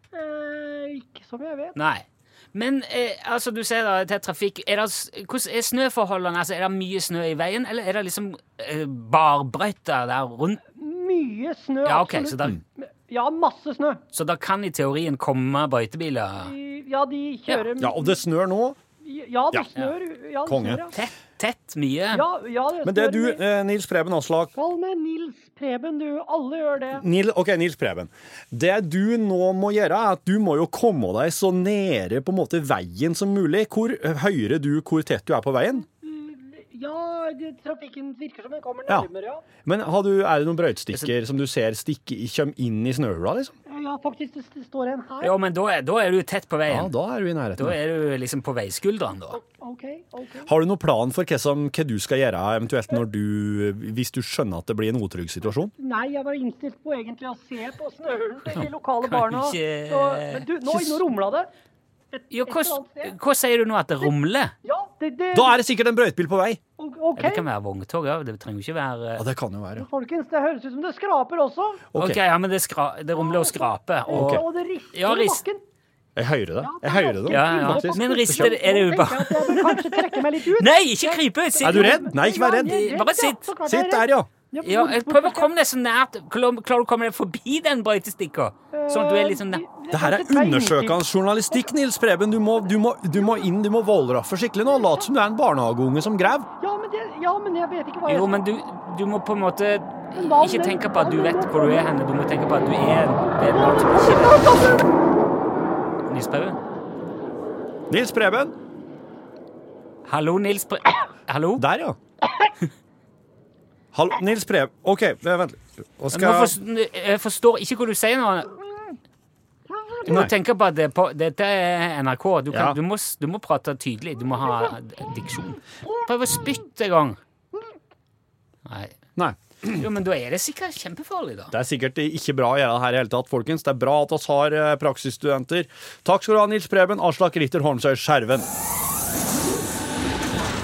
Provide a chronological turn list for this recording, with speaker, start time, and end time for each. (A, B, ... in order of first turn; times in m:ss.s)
0:00.1-0:01.8 A
0:01.8-0:10.6 B
0:10.8-0:14.0 A
0:11.8-0:12.6 B
0:14.1-0:16.5 B
0:16.4-0:18.2 A
0:17.8-0:18.8 C
0:19.0-0:20.9 A
0:20.4-0:20.8 C
0:20.9-0:22.2 B
0:22.1-0:23.4 A
0:22.8-0:24.5 C
0:24.6-0:27.0 A
0:26.9-0:35.8 C
0:35.8-0:39.4 A
0:39.6-0:43.5 C
0:43.7-0:45.3 A
0:45.2-0:46.9 B
0:46.7-0:47.8 C
0:47.6-0:49.4 B
0:49.3-0:50.5 A
0:50.4-0:55.7 C
0:55.8-1:01.5 A
0:58.5-1:00.5 B
1:00.7-1:01.0 C
1:02.1-1:03.1 A
1:02.3-1:04.5 B
1:04.6-1:05.5 A
1:05.3-1:06.6 C
1:06.8-1:07.4 A
1:07.2-1:09.2 B
1:09.2-1:09.9 C
1:09.8-1:11.9 A
1:11.9-1:12.2 C
1:12.0-1:15.4 B
1:13.2-1:15.6 A
1:14.1-1:14.4 C
1:16.2-1:18.5 C
1:16.6-1:25.5 A
1:17.3-1:23.4 B
1:21.6-1:22.8 C
1:23.6-1:24.3 C
1:24.6-1:29.6 B
1:28.7-1:31.7 A
1:29.9-1:36.5 C
1:33.2-1:33.4 A
1:34.7-1:35.1 A
1:36.6-1:38.4 A
1:38.0-1:44.7 B
1:40.1-1:41.9 A
1:46.1-1:46.6 B
1:47.9-1:48.5 C
1:50.0-1:51.6 B
1:51.6-1:52.0 C
1:53.9-1:56.6 C
1:56.1-1:58.5 B
1:59.7-2:00.1 A
2:00.0-2:07.2 B
2:00.1-2:00.3 C
2:02.5-2:02.8 C
2:08.6-2:09.0 B
2:09.2-2:09.8 C
2:09.7-2:11.5 B
2:11.5-2:18.5 C